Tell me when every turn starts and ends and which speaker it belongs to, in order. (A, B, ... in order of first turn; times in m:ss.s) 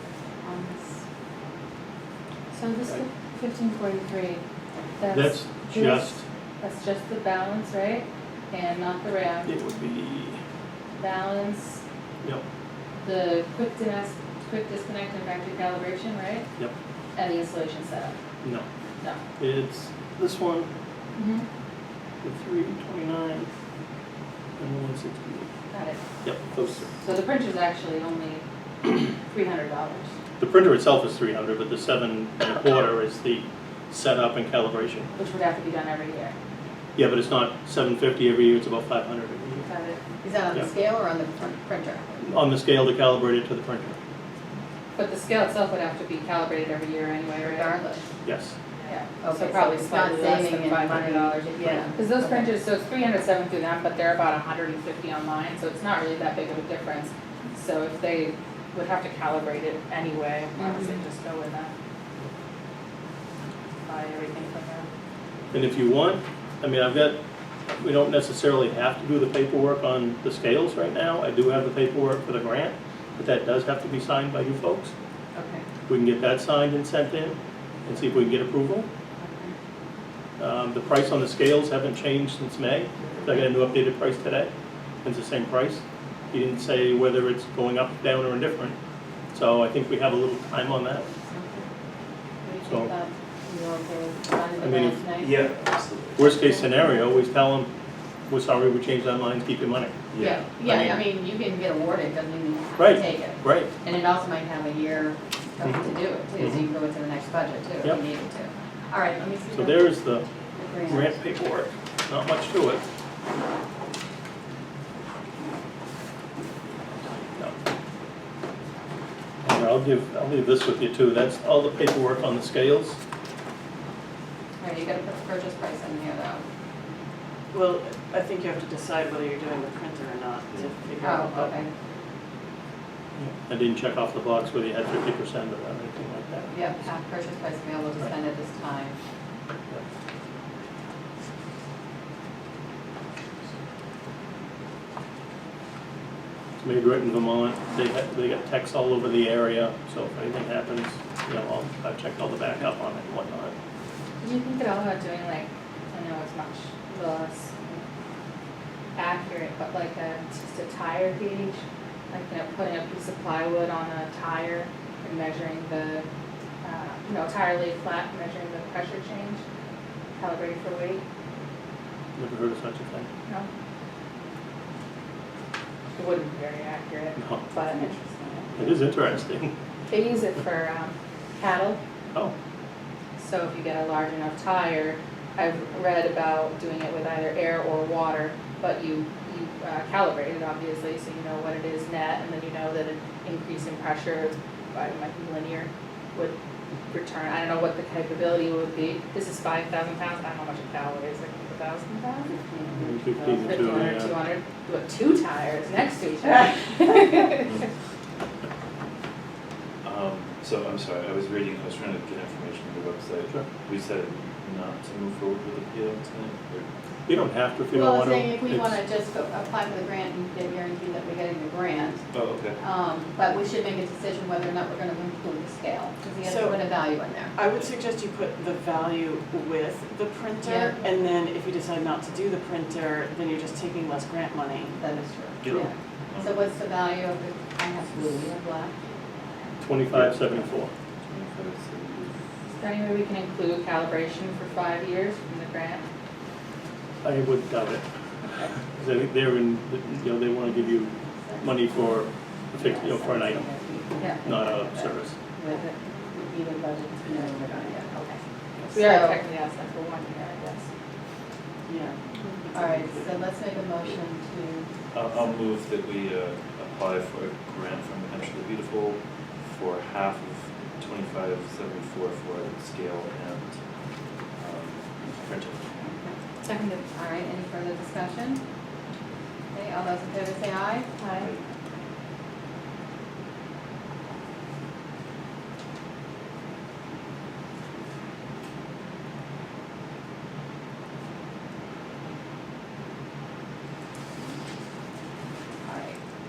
0:00.4-0:01.0 A
0:02.5-0:04.4 B
0:05.0-0:09.5 B
0:05.1-0:06.2 C
0:09.5-0:10.4 C
0:11.0-0:11.8 B
0:13.0-0:16.5 B
0:17.2-0:18.2 B
0:19.4-0:20.7 C
0:21.2-0:21.5 B
0:22.2-0:23.5 C
0:24.6-0:25.5 C
0:25.7-0:26.0 B
0:26.2-0:26.9 C
0:26.9-0:30.1 B
0:30.4-0:35.1 C
0:35.2-0:36.4 B
0:37.0-0:39.7 C
0:39.7-0:40.0 B
0:40.2-0:42.2 A
0:42.2-0:44.0 C
0:45.0-0:47.7 B
0:47.4-0:48.0 A
0:48.2-0:48.6 C
0:48.8-1:01.7 B
0:49.2-0:52.5 A
1:00.6-1:00.9 A
1:03.9-1:04.9 B
1:05.5-1:07.2 C
1:07.8-1:14.9 C
1:15.4-1:15.6 A
1:15.9-1:18.9 C
1:19.2-1:19.5 A
1:20.4-1:24.5 C
1:25.0-1:28.8 C
1:29.3-1:31.1 C
1:31.3-1:31.7 A
1:32.4-1:35.3 A
1:32.7-1:32.9 C
1:34.6-1:35.0 C
1:35.2-1:36.4 D
1:36.2-1:37.7 C
1:38.3-1:41.0 C
1:40.1-1:40.4 D
1:40.2-1:49.9 A
1:42.8-1:43.7 C
1:49.5-1:50.3 C
1:50.6-1:51.1 A
1:50.8-1:52.8 C
1:59.4-2:03.0 C
2:04.6-2:06.4 A
2:07.5-2:11.6 E
2:11.0-2:11.7 A
2:13.2-2:16.5 C
2:16.5-2:19.0 A
2:26.6-2:33.6 C
2:34.2-2:37.8 B
2:39.0-2:46.1 B
2:46.6-2:49.4 B
2:50.2-2:51.0 B
2:52.2-2:53.1 C
2:56.0-2:58.0 B
2:57.2-2:57.4 C
2:57.7-2:58.8 E
2:58.6-2:59.5 C
2:59.9-3:01.8 B
3:03.2-3:16.4 B
3:16.9-3:22.4 B
3:22.5-3:23.5 E
3:22.8-3:24.2 C
3:23.4-3:27.7 B
3:29.8-3:36.7 D
3:37.1-3:38.8 C
3:37.7-3:42.0 A
3:42.1-3:42.6 D
3:42.6-3:47.4 A
3:46.2-3:46.7 E
3:47.4-3:54.8 E
3:50.4-3:50.8 A
3:54.8-3:58.7 A
3:55.4-3:56.4 D
3:59.6-4:00.7 C
3:59.9-4:00.4 D
4:01.1-4:02.2 D
4:02.6-4:05.8 B
4:07.0-4:07.8 C
4:08.8-4:13.5 C
4:12.7-4:14.9 A
4:14.0-4:14.2 B
4:14.2-4:15.2 C
4:15.4-4:17.9 A
4:15.4-4:15.7 B
4:17.9-4:20.7 B
4:18.7-4:19.2 A
4:21.7-4:22.0 E
4:22.5-4:24.7 A
4:24.9-4:33.6 D
4:34.4-4:35.8 D
4:36.4-4:36.8 B
4:36.9-4:38.4 A
4:39.5-4:40.9 A
4:41.0-4:41.3 B
4:41.2-4:41.4 D
4:55.6-4:56.0 A